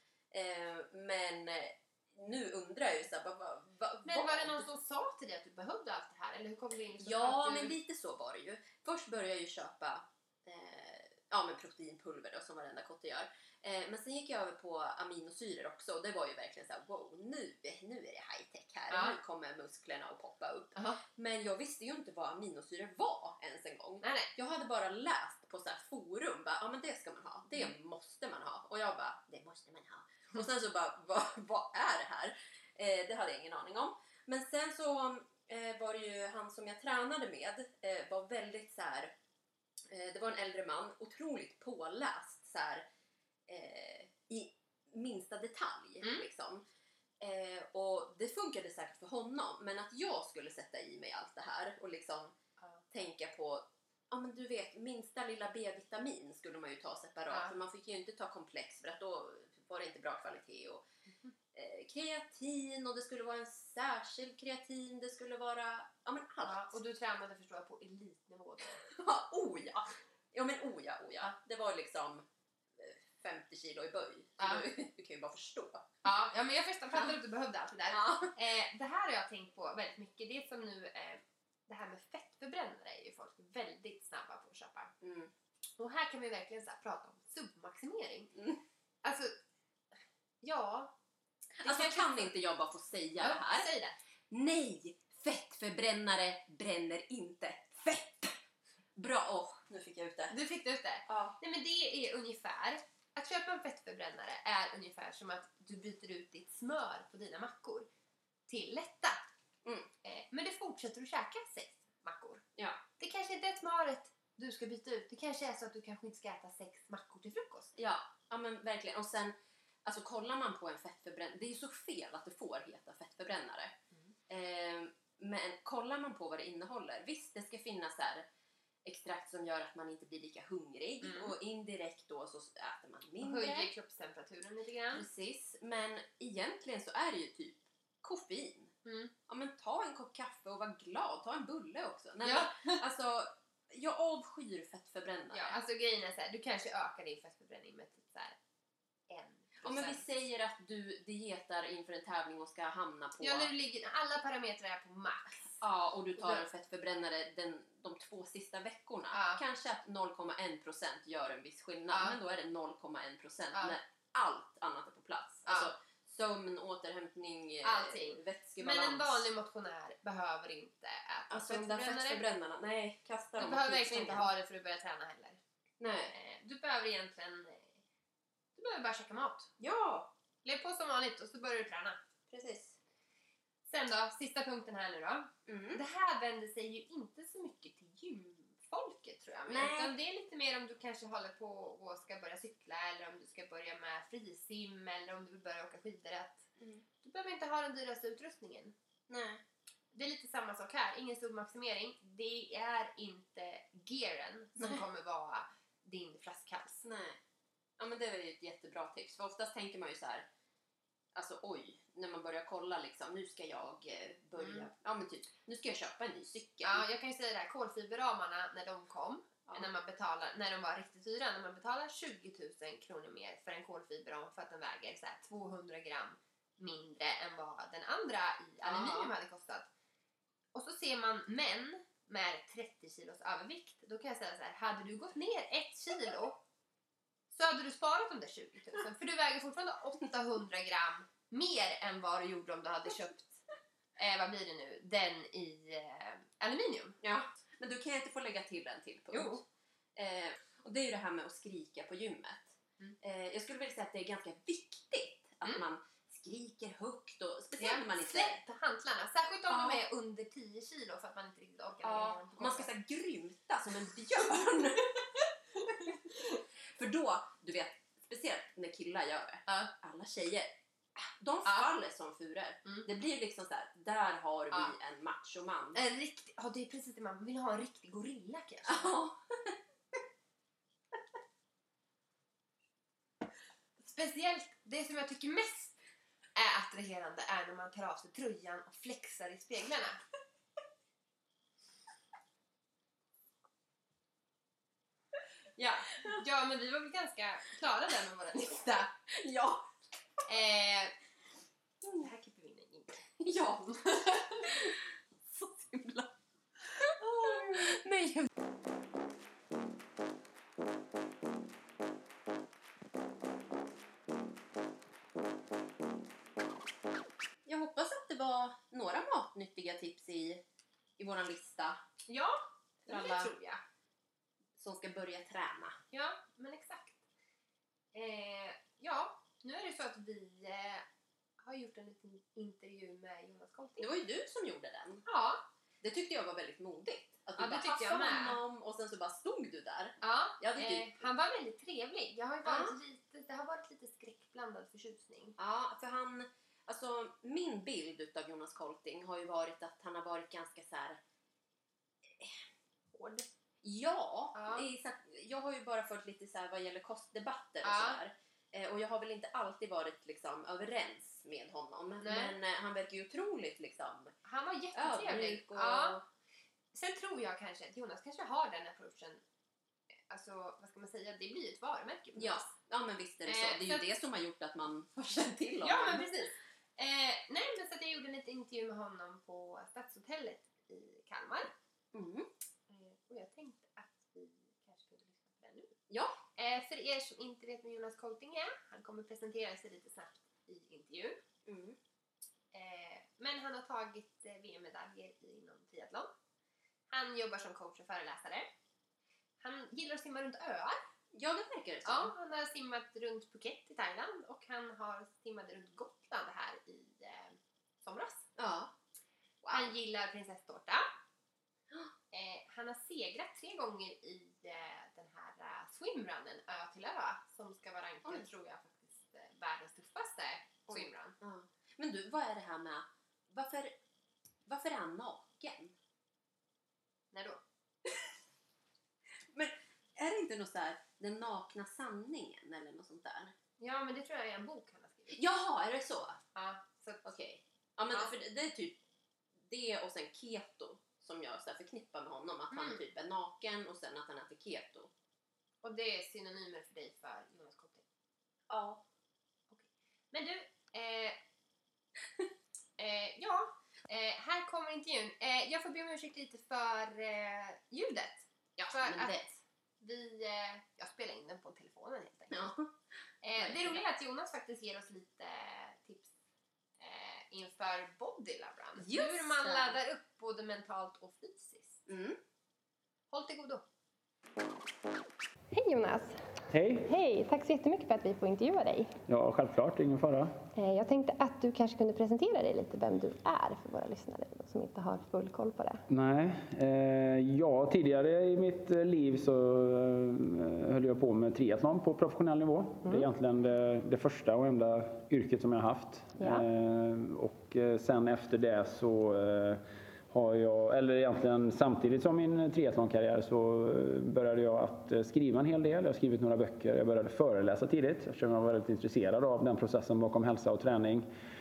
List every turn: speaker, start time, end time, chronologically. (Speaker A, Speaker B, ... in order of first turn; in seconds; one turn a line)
Speaker A: 0.3-4.7
Speaker B: 4.0-7.8
Speaker A: 7.0-39.1
Speaker B: 18.9-19.2
Speaker B: 20.8-21.0
Speaker B: 24.0-24.3
Speaker A: 39.9-42.9
Speaker A: 43.5-46.6
Speaker A: 47.2-52.3
Speaker A: 52.9-60.8
Speaker A: 61.5-66.8
Speaker B: 66.4-68.8
Speaker A: 68.9-76.0
Speaker B: 74.4-74.6
Speaker B: 76.0-84.9
Speaker A: 77.9-78.3
Speaker A: 85.0-85.3
Speaker B: 85.8-88.3
Speaker A: 88.3-88.6
Speaker B: 89.0-89.3
Speaker B: 90.4-90.9
Speaker B: 91.6-92.3
Speaker A: 91.6-93.7
Speaker B: 93.2-94.0
Speaker A: 94.3-98.4
Speaker A: 99.0-100.4
Speaker B: 100.3-107.9
Speaker A: 101.1-101.4
Speaker B: 108.5-109.2
Speaker A: 109.6-109.9
Speaker B: 110.0-112.4
Speaker A: 112.6-112.8
Speaker B: 113.0-117.7
Speaker A: 117.8-123.8
Speaker A: 124.3-128.3
Speaker A: 128.8-133.7
Speaker B: 131.0-131.3
Speaker B: 133.2-135.1
Speaker A: 134.9-138.7
Speaker B: 138.8-139.1
Speaker A: 139.3-145.6
Speaker B: 142.2-142.8
Speaker B: 145.3-148.4
Speaker B: 149.1-150.0
Speaker A: 149.6-153.5
Speaker B: 153.2-155.6
Speaker A: 155.6-169.3
Speaker B: 156.2-156.4
Speaker B: 159.1-159.4
Speaker B: 161.9-162.2
Speaker B: 165.4-165.7
Speaker B: 167.6-172.2
Speaker A: 171.3-174.3
Speaker B: 173.4-175.4
Speaker A: 175.8-176.1
Speaker B: 176.1-177.8
Speaker B: 178.6-179.5
Speaker A: 179.6-180.1
Speaker B: 180.4-182.0
Speaker A: 182.3-182.8
Speaker B: 183.7-196.5
Speaker A: 185.5-185.8
Speaker A: 189.5-190.0
Speaker A: 196.6-196.8
Speaker B: 197.0-198.7
Speaker A: 199.1-199.4
Speaker B: 199.9-206.8
Speaker A: 206.8-207.2
Speaker A: 207.8-210.2
Speaker A: 211.1-216.8
Speaker B: 214.4-214.7
Speaker B: 216.6-229.7
Speaker A: 228.6-229.1
Speaker B: 230.5-236.4
Speaker B: 237.3-243.4
Speaker B: 244.0-247.0
Speaker A: 247.0-249.4
Speaker B: 249.1-249.4
Speaker A: 250.0-258.4
Speaker B: 257.6-262.7
Speaker A: 259.5-259.8
Speaker A: 261.8-265.0
Speaker A: 266.7-275.8
Speaker B: 275.7-279.0
Speaker A: 278.7-279.6
Speaker B: 283.8-285.8
Speaker B: 286.4-290.0
Speaker B: 295.6-298.9
Speaker A: 299.1-299.7
Speaker B: 300.3-300.9
Speaker B: 301.9-304.7
Speaker A: 303.2-303.7
Speaker A: 304.4-306.1
Speaker A: 306.8-308.3
Speaker B: 307.1-307.8
Speaker A: 317.4-320.4
Speaker A: 321.0-321.8
Speaker B: 322.1-323.6
Speaker A: 322.9-323.3
Speaker A: 324.6-325.8
Speaker B: 325.9-327.0
Speaker B: 327.9-330.9
Speaker B: 331.4-333.9
Speaker A: 333.8-335.1
Speaker B: 335.1-335.4
Speaker A: 335.8-341.0
Speaker B: 337.4-338.4
Speaker B: 340.0-345.4
Speaker A: 342.4-342.8
Speaker A: 345.4-351.0
Speaker A: 352.0-352.4
Speaker B: 353.0-353.3
Speaker A: 353.6-364.1
Speaker B: 354.4-354.7
Speaker B: 357.6-358.0
Speaker B: 362.0-362.4
Speaker B: 364.2-366.0
Speaker A: 364.8-366.1
Speaker B: 366.7-369.2
Speaker B: 370.1-372.5
Speaker A: 372.2-376.2
Speaker B: 373.3-373.8
Speaker B: 375.6-381.5
Speaker A: 381.9-382.3
Speaker B: 382.7-385.8
Speaker A: 385.9-386.2
Speaker B: 386.4-391.2
Speaker A: 391.5-391.8
Speaker B: 392.5-396.1
Speaker B: 396.9-398.5
Speaker B: 399.4-400.8
Speaker A: 401.1-402.1
Speaker B: 401.9-408.3
Speaker A: 408.4-408.7
Speaker A: 409.4-409.7
Speaker B: 409.5-410.9
Speaker B: 412.1-421.2
Speaker A: 420.7-423.8
Speaker A: 424.5-425.8
Speaker B: 427.1-427.4
Speaker A: 429.3-433.3
Speaker B: 433.6-435.2
Speaker A: 435.1-436.2
Speaker B: 436.4-437.0
Speaker A: 437.0-438.8
Speaker A: 439.4-444.9
Speaker B: 442.5-442.8
Speaker B: 445.6-447.9
Speaker A: 448.5-448.8
Speaker B: 449.5-451.2
Speaker B: 452.8-462.5
Speaker A: 458.7-459.2
Speaker A: 462.3-462.7
Speaker B: 463.2-466.1
Speaker A: 463.4-463.8
Speaker B: 466.8-471.9
Speaker A: 468.8-469.8
Speaker A: 471.9-472.2
Speaker B: 473.1-473.6
Speaker C: 475.5-476.2
Speaker D: 476.5-476.9
Speaker C: 476.9-478.9
Speaker D: 479.1-480.3
Speaker C: 480.6-485.8
Speaker D: 485.9-511.1
Speaker C: 496.2-496.4